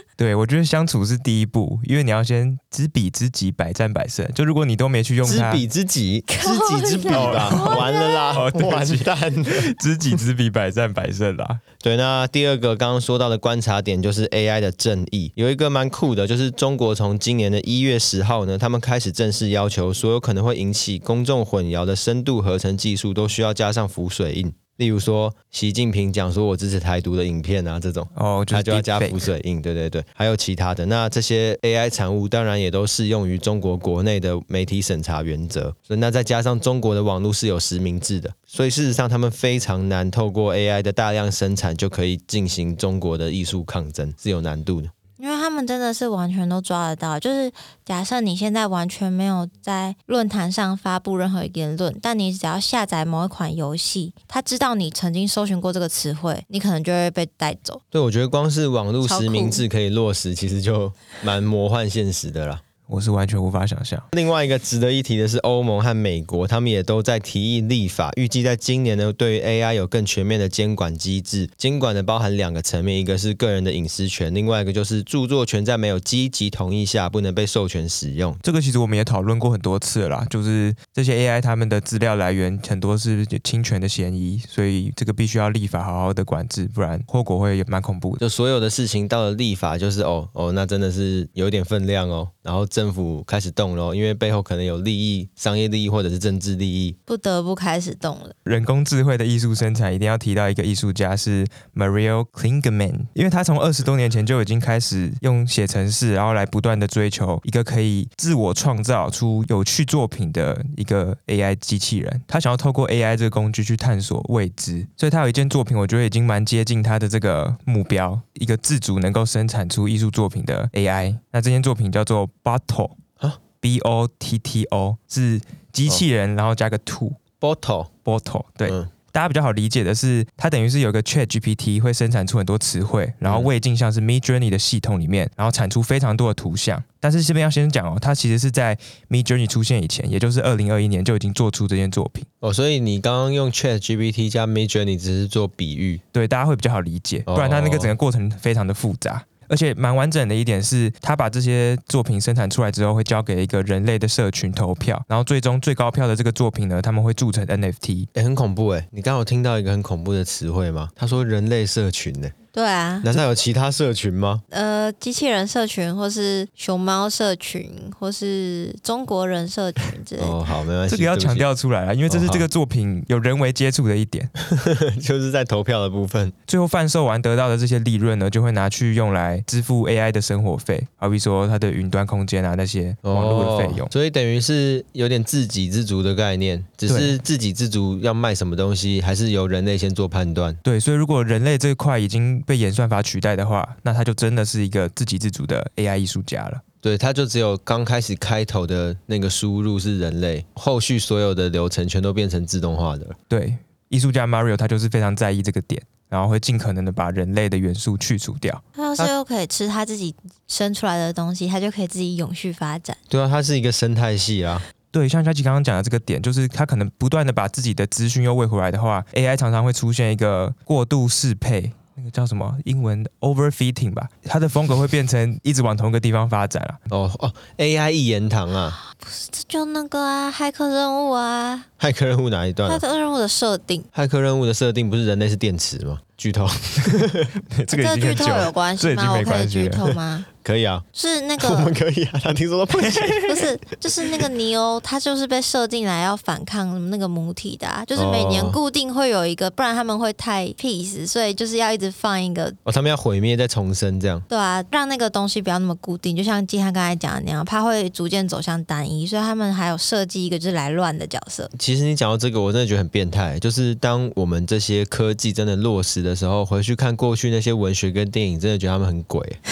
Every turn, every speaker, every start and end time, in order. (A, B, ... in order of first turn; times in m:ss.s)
0:00.2-0:05.6 A
0:05.2-0:10.2 B
0:06.4-0:08.4 C
0:07.1-0:11.6 A
0:11.8-0:44.9 B
0:28.1-0:29.3 A
0:45.2-0:57.8 C
0:57.9-1:02.6 B
0:59.0-0:59.6 C
1:02.9-1:04.1 A
1:04.1-1:18.4 B
1:18.4-1:28.2 A
1:28.2-1:37.0 B
1:37.1-1:38.3 C
1:38.4-2:03.0 A
2:03.6-2:07.2 A
2:07.4-2:07.9 B
2:08.0-2:22.3 A
2:08.6-2:08.9 B
2:22.4-2:26.0 B
2:26.1-2:38.1 A
2:27.3-2:27.9 B
2:38.1-2:42.3 B
2:42.5-2:43.1 C
2:43.0-2:44.4 B
2:44.5-2:50.4 C
2:50.2-2:51.5 B
2:50.9-2:54.3 A
2:52.1-2:52.5 B
2:54.4-2:56.3 B
2:56.5-3:03.9 A
3:03.0-3:10.6 B
3:06.9-3:07.2 A
3:10.6-3:16.6 A
3:16.8-3:23.2 B
3:23.3-3:28.6 A
3:28.8-3:33.0 C
3:33.1-3:34.6 B
3:34.9-3:46.8 A
3:46.9-3:48.8 B
3:48.9-3:51.7 C
3:51.8-3:52.8 B
3:52.7-3:53.9 C
3:53.9-3:57.3 B
3:57.5-4:00.0 A
3:57.7-4:00.3 C
4:00.3-4:00.8 B
4:00.9-4:01.7 C
4:01.4-4:03.5 B
4:03.2-4:12.6 C
4:07.9-4:08.6 B
4:12.6-4:14.2 B
4:14.3-4:21.5 C
4:21.5-4:29.4 B